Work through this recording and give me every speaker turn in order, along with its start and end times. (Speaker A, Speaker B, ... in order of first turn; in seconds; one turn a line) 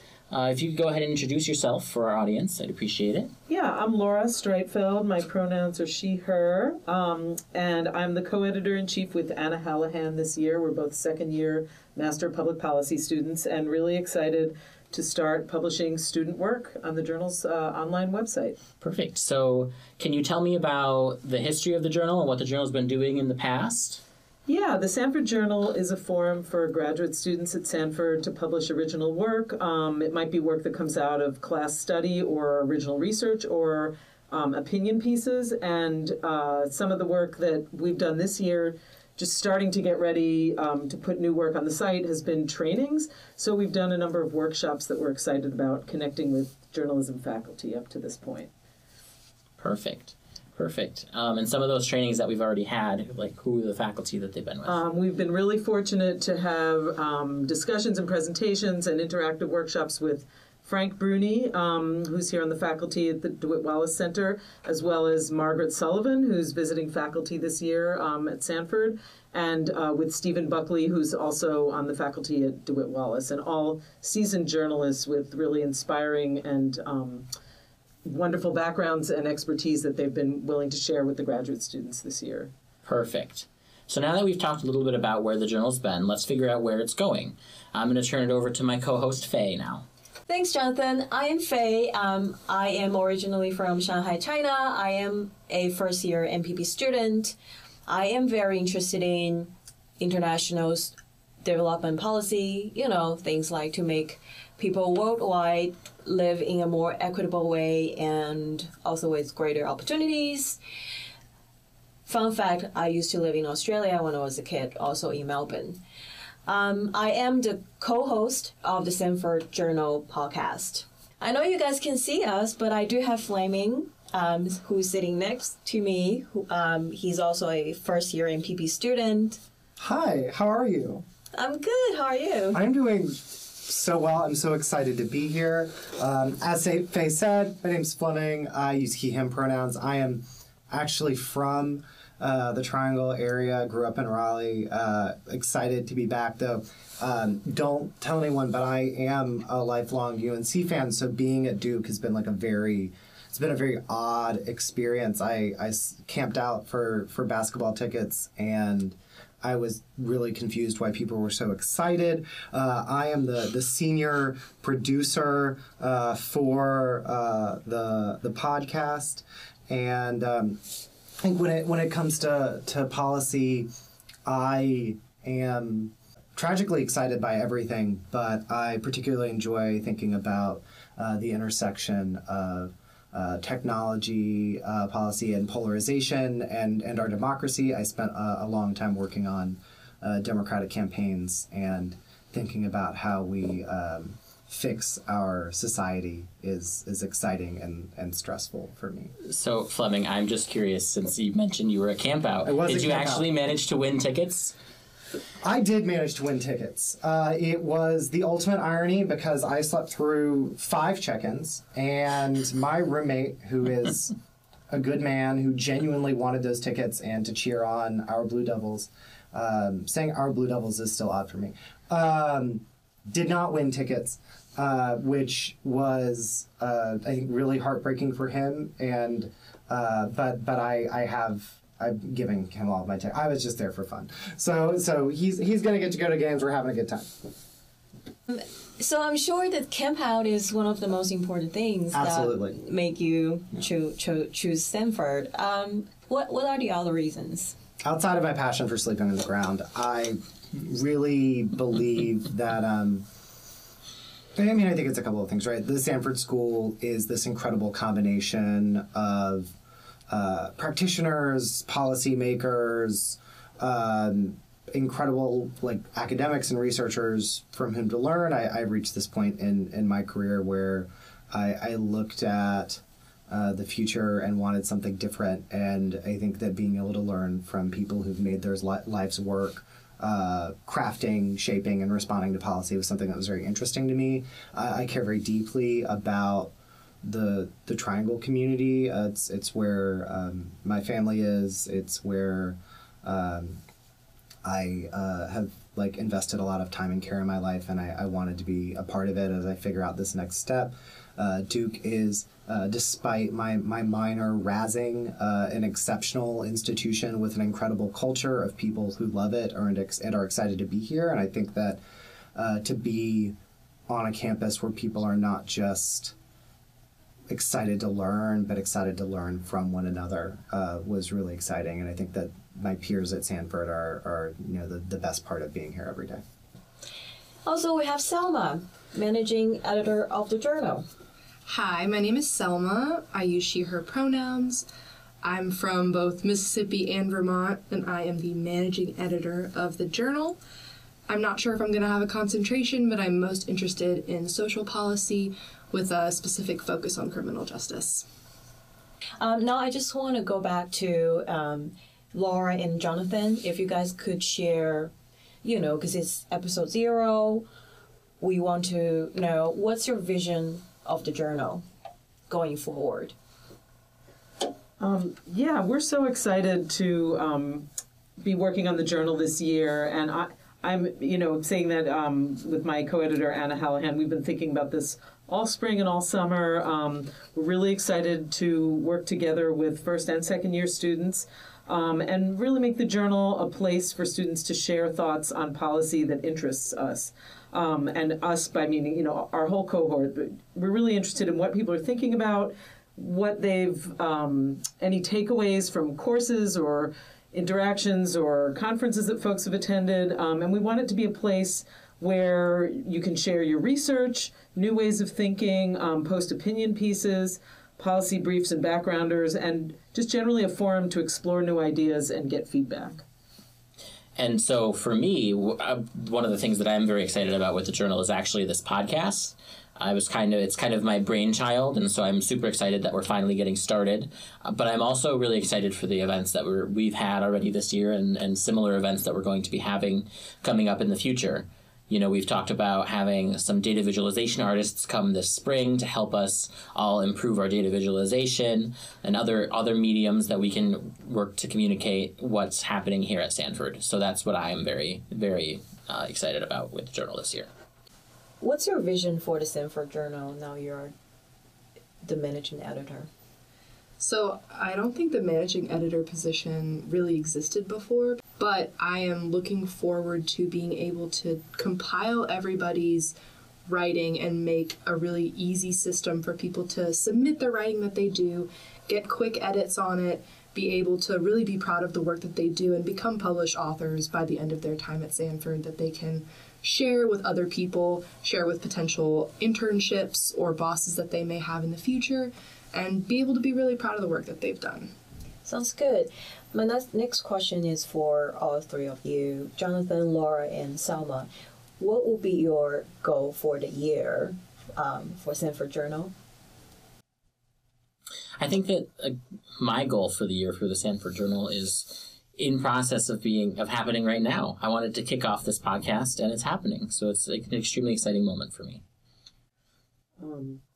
Speaker A: 0.3-3.3
Speaker B: 3.5-18.6
Speaker A: 18.8-24.0
Speaker B: 24.5-48.5
Speaker A: 49.6-54.8
Speaker B: 54.6-77.3
Speaker B: 78.0-82.5
Speaker A: 82.8-89.8
Speaker C: 90.3-97.4
Speaker C: 97.9-110.6
Speaker C: 112.1-115.8
Speaker C: 116.5-129.4
Speaker D: 129.8-131.1
Speaker C: 131.3-132.6
Speaker D: 132.5-173.7
Speaker D: 174.2-199.1
Speaker A: 199.2-204.6
Speaker D: 202.4-203.3
Speaker D: 205.4-214.1
Speaker D: 214.7-237.3
Speaker C: 238.3-247.6
Speaker D: 241.9-242.6
Speaker D: 247.8-253.1
Speaker D: 254.3-259.6
Speaker D: 260.1-293.6
Speaker D: 294.4-311.8
Speaker D: 312.4-313.4
Speaker D: 313.9-316.1
Speaker D: 317.3-326.2
Speaker C: 327.4-330.9
Speaker E: 331.5-334.7
Speaker E: 335.2-340.4
Speaker E: 341.1-348.1
Speaker C: 349.2-354.9
Speaker C: 355.4-357.5
Speaker C: 358.2-361.6
Speaker C: 362.3-363.1
Speaker B: 364.8-367.7
Speaker B: 368.2-413.0
Speaker A: 414.2-447.5
Speaker C: 448.4-450.9
Speaker C: 452.0-453.1
Speaker E: 454.0-463.1
Speaker E: 463.7-484.9
Speaker C: 485.4-496.1
Speaker A: 498.4-508.8
Speaker B: 510.2-510.6